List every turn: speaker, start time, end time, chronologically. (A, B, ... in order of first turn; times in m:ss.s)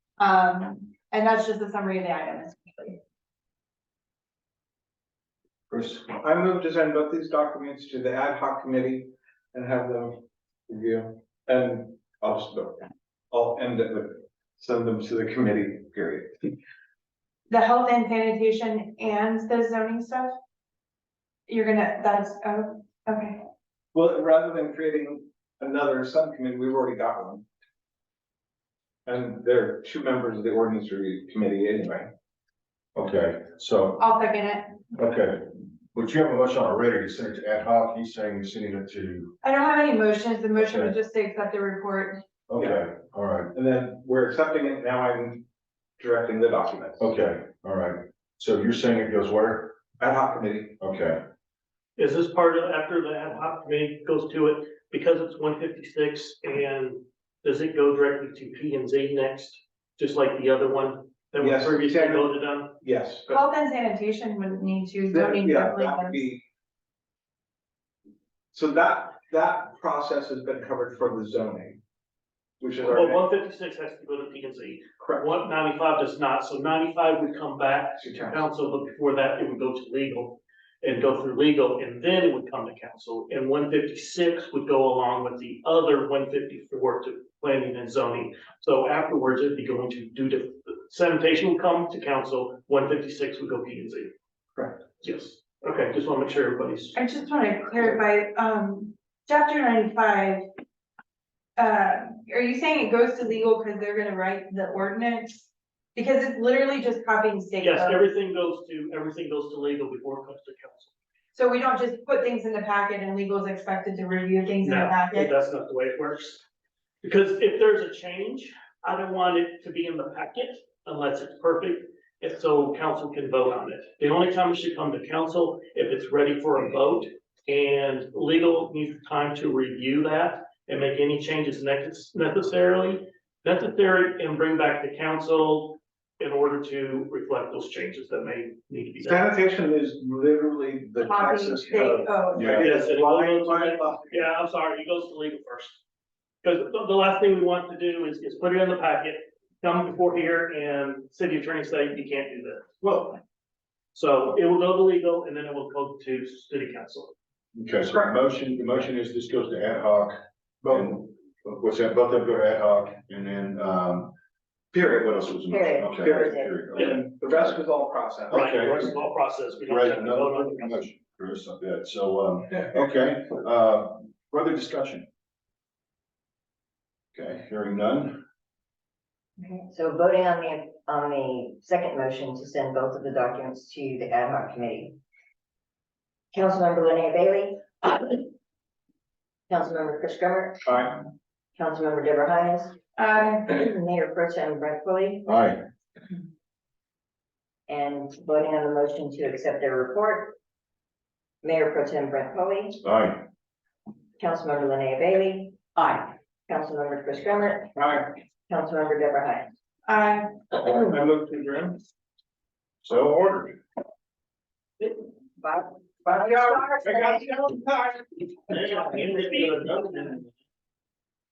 0:00.2-0:03.0 A
0:05.7-0:06.1 B
0:06.1-0:16.5 C
0:17.5-0:20.3 A
0:21.5-0:23.4 A
0:23.9-0:27.4 C
0:29.0-0:32.1 C
0:33.0-0:34.0 B
0:34.0-0:34.8 A
0:34.9-0:39.4 B
0:39.4-0:42.2 A
0:40.6-0:40.9 B
0:42.5-0:43.5 B
0:42.6-0:42.8 C
0:43.5-0:45.4 C
0:46.0-0:47.0 C
0:47.0-0:49.8 B
0:50.0-0:50.8 C
0:50.8-0:51.2 B
0:52.0-1:02.8 D
1:01.4-1:03.3 C
1:03.3-1:06.2 A
1:05.1-1:06.4 C
1:08.5-1:11.8 C
1:12.6-1:13.2 C
1:12.8-1:34.1 D
1:15.0-1:15.3 C
1:18.0-1:18.4 C
1:34.6-1:34.8 C
1:35.0-1:37.0 D
1:37.0-1:40.4 A
1:41.6-1:48.0 A
1:47.6-1:50.9 D
1:51.3-1:55.3 A
1:54.6-1:56.4 D
1:57.0-2:19.3 D
2:19.0-2:24.2 C
2:21.0-2:22.7 A
2:22.4-2:22.6 B
2:22.6-2:25.8 D
2:26.4-2:32.7 D
2:32.8-2:33.2 C
2:33.9-2:37.1 D
2:37.6-2:40.1 B
2:40.6-2:41.0 C
2:40.7-2:44.1 B
2:44.8-2:47.6 B
2:45.5-2:46.7 E
2:46.0-2:48.7 C
2:46.8-2:47.0 D
2:48.3-2:50.8 D
2:48.3-2:49.0 B
2:49.7-2:55.1 B
2:57.2-2:58.2 B
2:59.4-3:05.0 E
3:06.3-3:08.2 E
3:09.5-3:10.6 E
3:10.7-3:11.0 C
3:11.6-3:12.8 E
3:13.0-3:13.5 A
3:13.5-3:15.3 E
3:15.3-3:15.6 B
3:17.7-3:20.4 E
3:21.4-3:22.8 E
3:22.8-3:23.2 B
3:24.2-3:25.7 E
3:26.5-3:27.7 E
3:27.8-3:28.1 C
3:28.5-3:29.5 E
3:29.9-3:30.4 A
3:30.5-3:31.8 C
3:32.8-3:33.6 B
3:35.4-3:37.3 E
3:36.1-3:38.8 C
3:38.5-3:40.2 D